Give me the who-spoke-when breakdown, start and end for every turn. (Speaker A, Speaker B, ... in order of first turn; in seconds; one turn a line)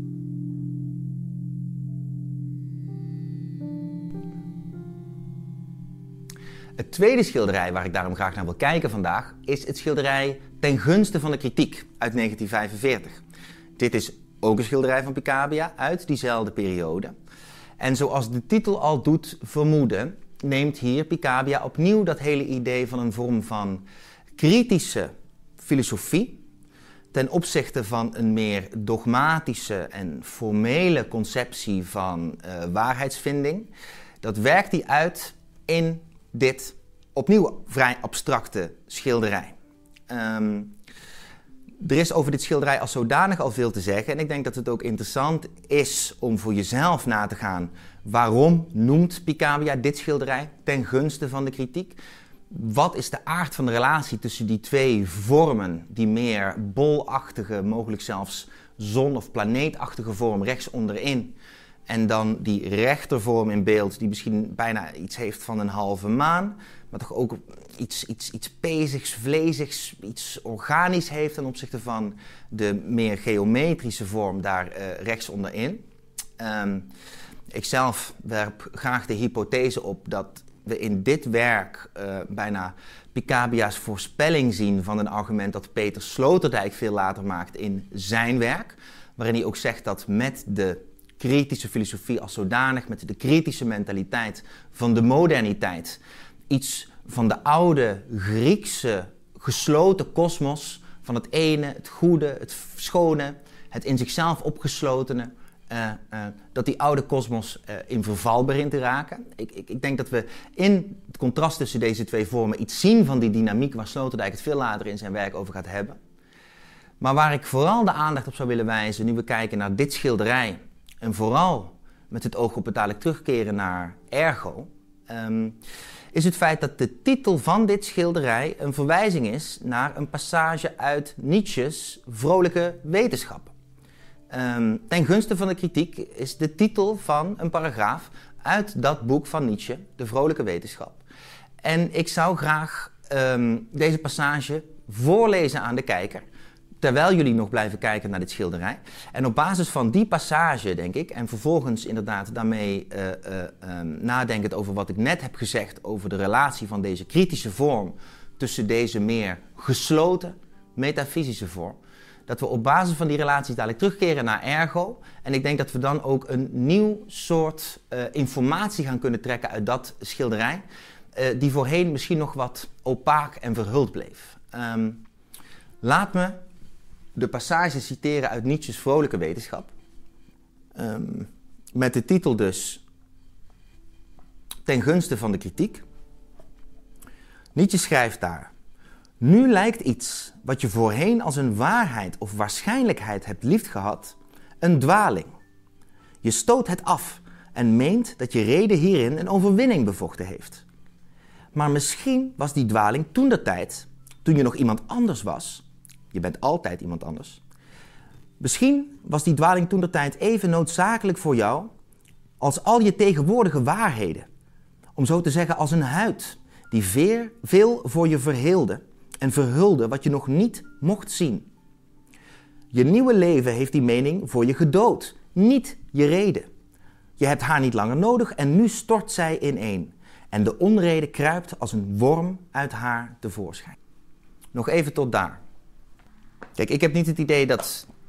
Speaker A: 6.8-13.2
Speaker A: 13.8-17.1
Speaker A: 17.8-23.8
Speaker A: 24.4-26.4
Speaker A: 27.1-33.7
Speaker A: 34.2-39.5
Speaker A: 40.1-40.8
Speaker A: 41.8-52.0
Speaker A: 52.5-61.4
Speaker A: 61.9-75.8
Speaker A: 76.4-76.9
Speaker A: 77.5-116.0
Speaker A: 117.0-125.6
Speaker A: 126.1-133.5
Speaker A: 134.3-141.0
Speaker A: 141.6-146.2
Speaker A: 146.8-170.6
Speaker A: 171.2-175.0
Speaker A: 175.8-176.4
Speaker A: 177.2-179.7
Speaker A: 180.8-182.8
Speaker A: 184.7-185.8
Speaker A: 187.6-188.5
Speaker A: 189.2-195.3
Speaker A: 196.2-200.6
Speaker A: 201.5-207.4
Speaker A: 208.4-211.7
Speaker A: 212.4-214.3
Speaker A: 215.0-221.5
Speaker A: 222.7-226.5
Speaker A: 227.2-233.8
Speaker A: 234.5-235.4
Speaker A: 236.6-237.9